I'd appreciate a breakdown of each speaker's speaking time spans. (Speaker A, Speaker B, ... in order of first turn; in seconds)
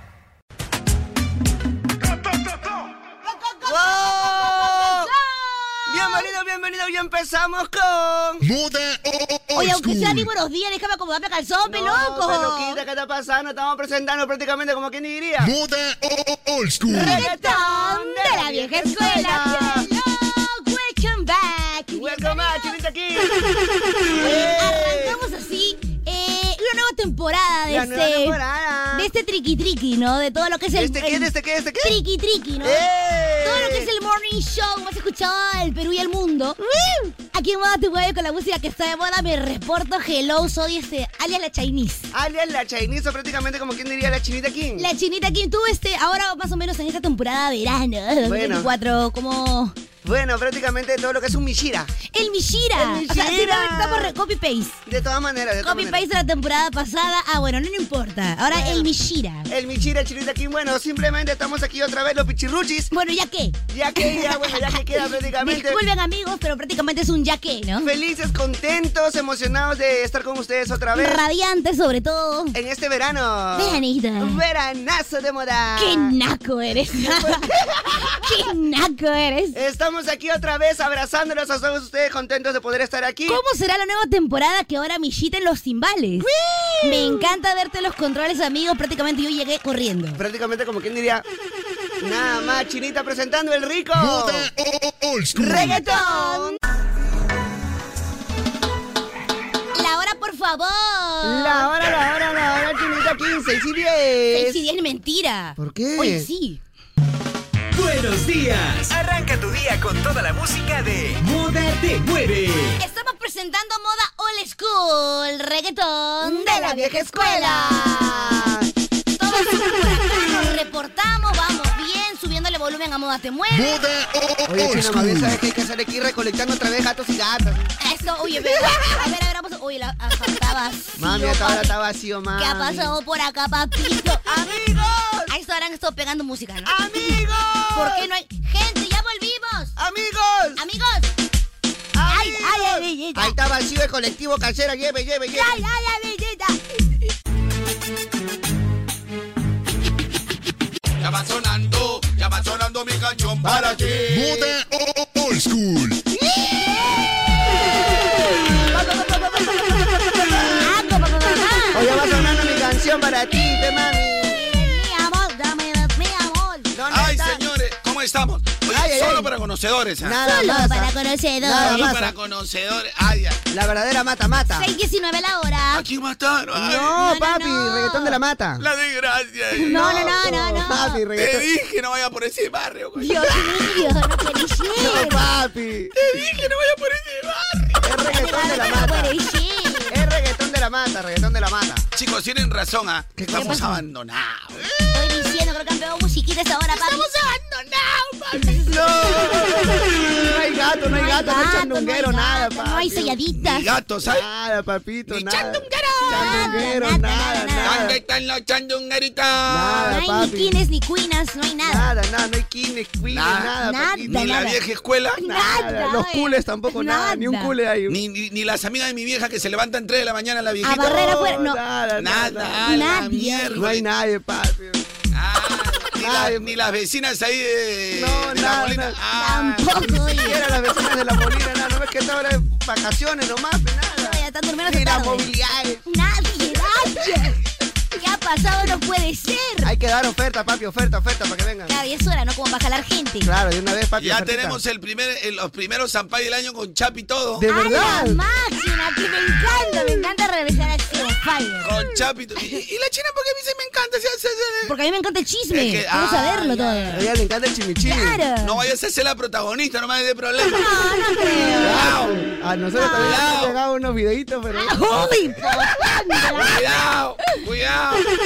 Speaker A: 3.3-6.3, 9.5-12.8, 16.9-22.8, 24.2-28.4, 28.9-31.3, 31.8-32.8, 33.4-36.6, 37.3-42.1, 44.8-49.7, 52.1-54.8, 55.6-59.5, 62.9-64.8, 65.4-67.9, 70.9-72.5, 73.5-74.4, 75.8-77.4, 78.2-79.6, 83.3-86.3, 86.8-90.2, 95.4-96.5, 99.7-101.7, 104.3-106.6, 112.8-118.5, 119.1-123.8, 127.8-131.7, 132.3-134.2, 135.3-137.2, 137.7-139.7, 140.6-141.1, 142.1-143.3, 145.3-146.6, 160.6-161.9, 164.3-166.7, 170.2-171.9, 174.5-175.8, 177.0-178.2, 179.6-181.0, 183.0-185.2, 188.1-190.0, 193.3-193.6, 194.9-197.1, 200.9-203.7, 206.0-207.8, 209.9-211.9, 213.6-214.6, 215.2-217.5, 220.6-221.6, 222.6-223.7, 229.2-230.4, 234.0-235.3, 235.9-237.4, 238.0-239.7, 241.7-243.3, 247.5-251.7, 254.6-257.0, 257.8-258.6, 260.5-261.9, 262.8-263.2, 264.5-266.6
Speaker B: 3.6-5.1, 5.9-8.5, 11.7-15.5, 16.9-19.9, 21.9-23.4, 24.1-25.2, 27.7-29.1, 30.7-32.0, 32.6-33.9, 36.6-37.1, 42.1-44.9, 48.2-48.7, 50.0-51.9, 52.8-54.1, 54.9-56.0, 58.5-58.9, 59.5-62.9, 63.7-65.8, 67.8-71.2, 72.5-76.1, 77.0-78.2, 79.5-83.4, 86.2-87.3, 90.2-91.2, 92.0-94.5, 95.3-96.5, 101.2-104.6, 105.6-106.3, 116.2-118.7, 124.5-127.7, 128.4-129.0, 131.0-132.9, 134.2-135.3, 136.6-138.1, 139.8-140.6, 141.9-145.6, 153.4-154.1, 158.7-159.4, 161.7-164.5, 166.7-167.4, 168.7-169.3, 170.0-172.1, 173.5-174.7, 176.5-178.7, 179.6-181.4, 184.8-185.9, 187.8-189.1, 189.9-191.8, 193.2-193.8, 198.7-203.2, 204.0-208.0, 209.5-210.5, 211.6-214.3, 215.2-218.0, 220.7-222.9, 223.5-224.8, 226.0-226.5, 227.9-229.0, 229.8-235.8, 239.6-241.7, 243.2-244.6, 247.4-248.2, 249.4-250.1, 256.9-258.2, 261.6-264.8
Speaker C: 8.5-10.3, 15.5-17.0, 94.2-95.7, 123.5-125.2, 154.5-156.0
Speaker D: 107.7-112.8
Speaker E: 151.0-154.6, 166.9-170.2, 171.6-173.4, 175.7-176.9, 178.6-180.1, 181.2-183.9, 186.0-187.8, 191.9-194.6, 196.7-199.1, 203.4-204.2, 205.1-206.5, 207.6-209.9, 213.1-213.5, 214.1-215.2, 217.9-221.1, 222.0-223.8, 225.1-230.0, 244.0-247.4, 251.6-254.7, 255.5-256.8, 258.4-260.6, 261.6-262.2, 262.9-263.6, 266.3-268.1